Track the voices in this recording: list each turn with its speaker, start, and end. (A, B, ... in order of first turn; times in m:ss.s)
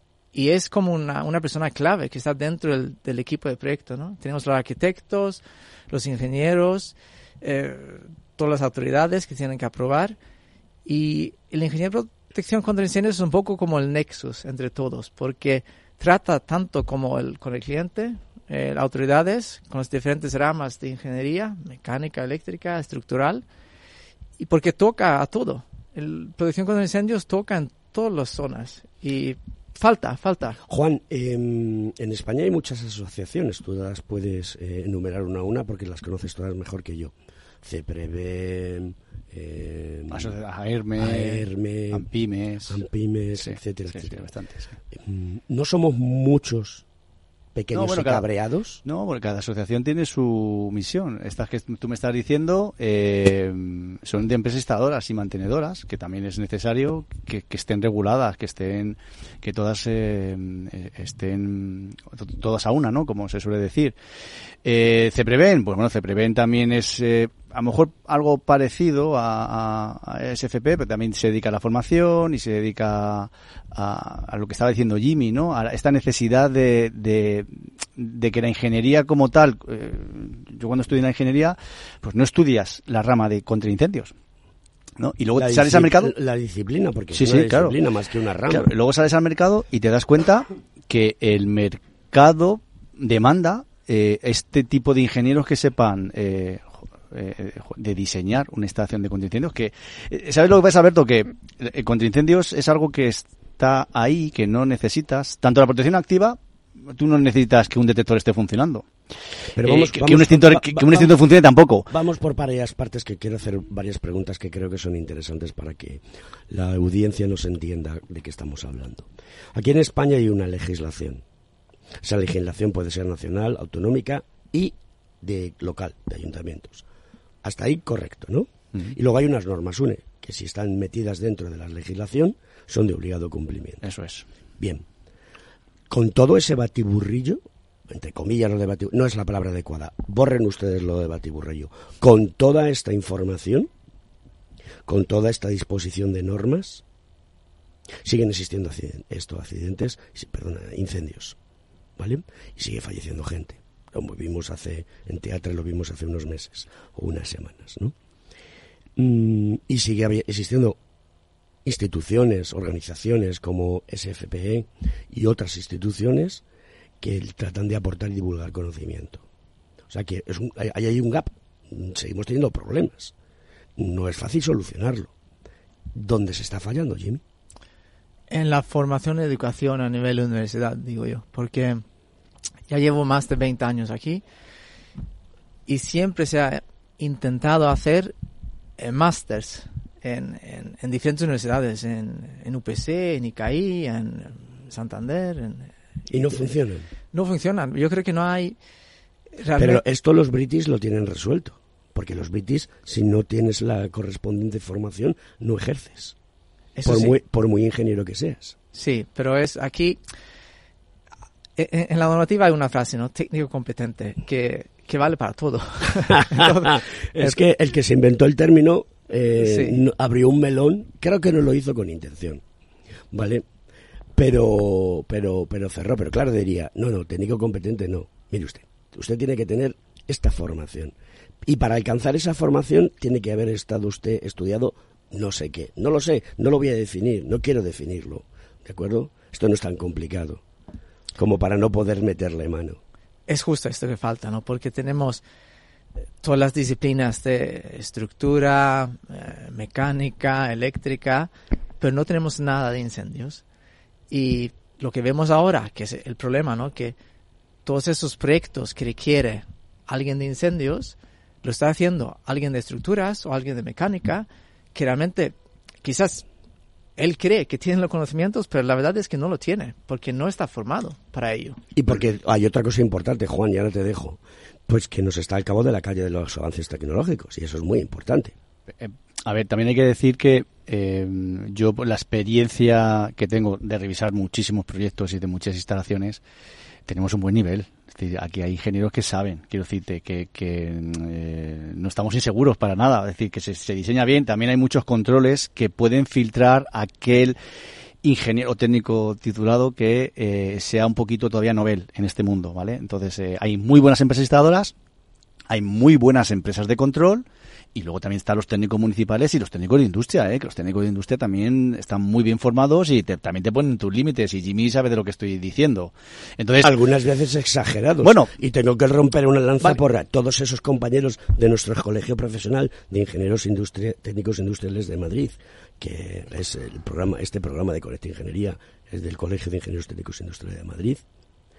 0:00.3-0:10.2 A
0:10.8-0:23.4 A
0:24.4-0:30.6 A
0:30.7-0:40.3 B
0:40.1-0:42.8 C
0:41.0-0:42.1 B
0:42.7-0:44.2 B
0:43.4-0:44.7 C
0:44.9-0:46.8 B
0:47.5-0:48.8 B
0:47.7-0:48.2 C
0:48.8-1:03.9 C
1:04.6-1:24.1 C
1:25.0-1:26.1 C
1:25.4-1:28.7 B
1:27.1-1:27.8 C
1:28.5-1:46.4 C
1:46.9-1:48.9 C
1:49.5-1:51.2 B
1:49.6-1:51.9 C
1:51.9-2:01.2 B
2:02.0-2:06.8 B
2:07.4-2:13.8 B
2:13.8-2:14.2 C
2:14.6-2:14.8 B
2:15.9-2:23.7 B
2:24.8-2:26.8 B
2:28.0-2:31.4 B
2:32.0-2:37.9 B
2:39.0-2:40.8 B
2:41.6-2:46.4 B
2:47.0-2:49.2 B
2:49.9-2:53.1 B
2:53.8-2:55.1 B
2:55.9-2:57.2 B
2:58.3-3:01.8 A
3:02.7-3:04.2 A
3:05.7-3:08.1 A
3:08.8-3:15.7 A
3:16.1-3:16.9 B
3:17.1-3:18.6 A
3:19.4-3:19.8 A
3:19.6-3:26.1 B
3:26.8-3:27.2 A
3:26.8-3:28.6 B
3:28.7-3:30.0 A
3:31.6-3:37.4 A
3:36.1-3:42.4 B
3:39.4-3:39.8 A
3:43.1-3:43.4 B
3:44.2-4:00.4 B
4:01.2-4:02.8 B
4:03.3-4:05.2 A
4:06.2-4:13.4 A
4:14.1-4:17.0 A
4:17.6-4:26.2 A
4:27.0-4:31.6 A
4:31.7-4:38.3 B
4:38.8-4:46.2 C
4:46.9-4:57.4 C
4:58.0-5:04.7 C
5:05.5-5:16.7 C
5:16.6-5:31.0 B
5:18.0-5:18.3 C